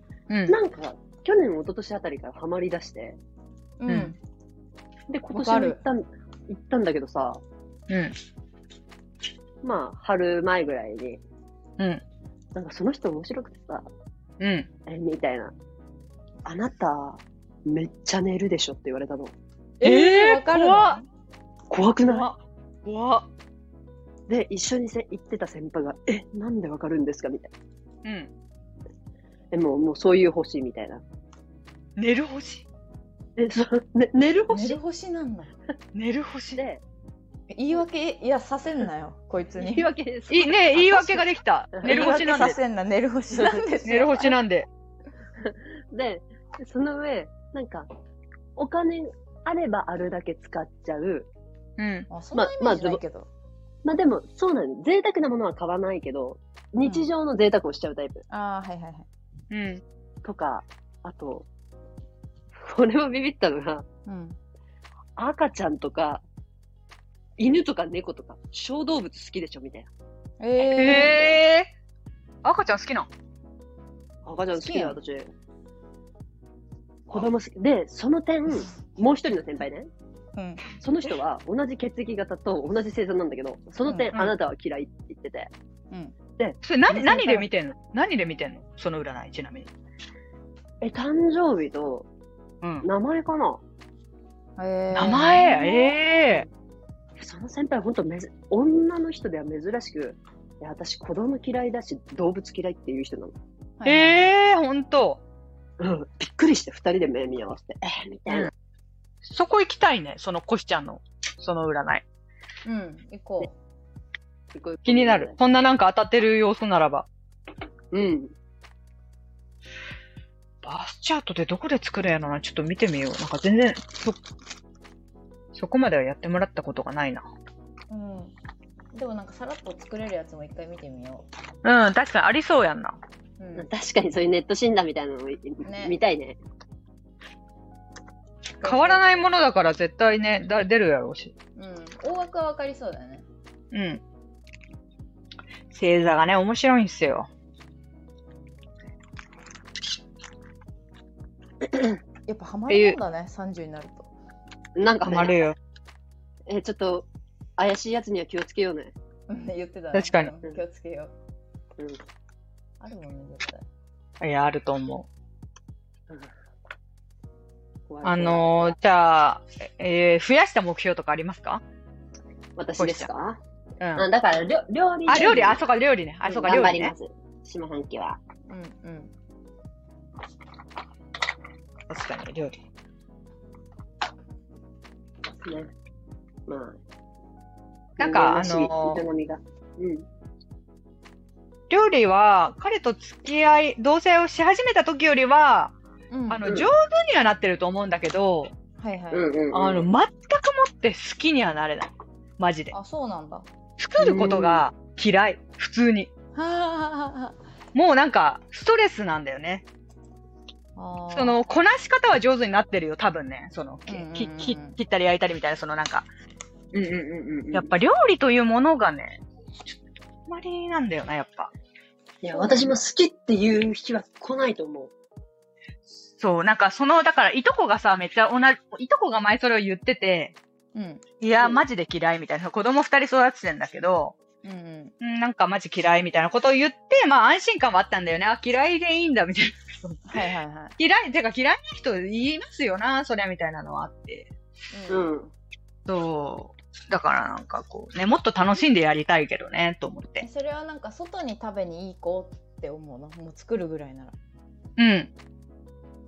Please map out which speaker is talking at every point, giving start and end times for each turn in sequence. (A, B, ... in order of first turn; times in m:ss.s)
0:00.3-0:00.6 A
0:00.5-0:03.2 B
0:03.8-0:04.2 C
0:03.9-0:04.2 A
0:05.1-0:07.4 B
0:05.3-0:05.8 C
0:07.9-0:08.2 A
0:09.6-0:11.2 B
0:12.6-0:13.9 B
0:14.4-0:14.7 A
0:14.9-0:15.5 B
0:16.4-0:19.4 B
0:19.8-0:21.1 C
0:19.8-0:21.0 A
0:21.7-0:22.3 B
0:22.1-0:23.3 A
0:24.3-0:27.5 B
0:28.0-0:28.3 A
0:29.5-0:31.0 B
0:32.0-0:32.7 A
0:33.4-0:34.8 B
0:34.5-0:35.6 C
0:36.0-0:36.6 A
0:36.6-0:36.8 B
0:37.5-0:39.9 C
0:39.6-0:42.4 B
0:40.3-0:42.6 A
0:41.8-0:44.4 C
0:43.3-0:43.6 B
0:43.8-0:44.7 A
0:45.4-0:47.9 B
0:48.6-0:51.3 B
0:51.8-0:52.1 A
0:52.1-0:53.3 C
0:52.3-0:53.0 B
0:53.8-0:58.2 B
0:56.8-0:57.1 C
0:58.3-0:59.1 C
0:59.5-0:59.8 A
1:00.2-1:01.5 B
1:02.5-1:03.8 B
1:04.1-1:04.4 C
1:05.2-1:06.2 B
1:07.4-1:09.9 B
1:10.4-1:11.2 C
1:10.7-1:11.7 A
1:10.9-1:11.3 B
1:12.4-1:13.1 A
1:14.2-1:15.3 B
1:14.6-1:15.0 C
1:17.1-1:19.9 B
1:20.4-1:20.6 C
1:20.8-1:25.5 B
1:23.9-1:24.1 C
1:26.6-1:29.7 A
1:26.9-1:27.5 C
1:30.8-1:32.1 B
1:32.6-1:32.9 A
1:32.8-1:33.6 B
1:34.6-1:36.0 C
1:34.9-1:36.5 A
1:37.2-1:43.4 B
1:43.8-1:44.3 C
1:43.8-1:45.2 A
1:45.8-1:48.5 B
1:49.2-1:52.0 A
1:52.6-1:53.5 C
1:54.5-1:55.4 B
1:54.8-1:57.1 A
1:57.9-1:58.3 B
2:00.6-2:04.2 A
2:05.5-2:07.3 A
2:07.9-2:08.4 C
2:08.9-2:11.3 C
2:11.6-2:13.0 A
2:13.4-2:13.7 C
2:13.6-2:16.4 B
2:15.6-2:16.0 C
2:18.6-2:19.2 C
2:18.6-2:21.3 A
2:21.6-2:23.2 C
2:23.7-2:24.0 A
2:25.7-2:27.3 A
2:32.3-2:34.1 C
2:32.7-2:33.0 A
2:34.8-2:35.4 B
2:35.0-2:35.6 A
2:36.5-2:38.9 B
2:39.3-2:41.1 C
2:39.9-2:40.3 A
2:42.8-2:43.6 C
2:44.2-2:45.1 A
2:47.9-2:48.8 B
2:48.0-2:51.6 A
2:52.6-2:53.4 B
2:52.8-2:53.1 A
2:53.8-2:54.1 A
2:54.0-2:55.6 B
2:55.1-2:56.9 A
2:56.2-2:58.2 B
2:58.5-2:59.1 C
3:01.9-3:02.6 A
3:05.4-3:05.7 B
3:06.5-3:06.8 B
3:08.0-3:09.0 A
3:08.0-3:10.1 B
3:11.7-3:15.7 A
3:16.1-3:16.5 C
3:16.3-3:18.5 A
3:16.4-3:16.7 B
3:18.8-3:19.3 C
3:19.1-3:19.9 B
3:19.5-3:22.7 A
3:22.7-3:23.5 C
3:23.8-3:26.1 A
3:24.0-3:24.6 B
3:26.4-3:27.4 C
3:27.7-3:29.6 A
3:30.8-3:31.4 C
3:31.1-3:36.1 A
3:33.9-3:34.8 C
3:36.7-3:37.7 B
3:37.5-3:39.2 A
3:40.3-3:41.5 A
3:42.2-3:44.9 B
3:42.3-3:42.7 C
3:46.2-3:50.4 A
3:50.8-3:51.0 C
3:51.2-3:54.2 A
3:51.4-3:51.6 B
3:54.4-3:54.9 C
3:55.0-4:00.2 A
4:00.1-4:00.8 C
4:00.8-4:04.3 A
4:04.7-4:05.1 C
4:04.9-4:05.3 B
4:05.9-4:10.2 A
4:10.2-4:14.2 C
4:14.8-4:15.1 A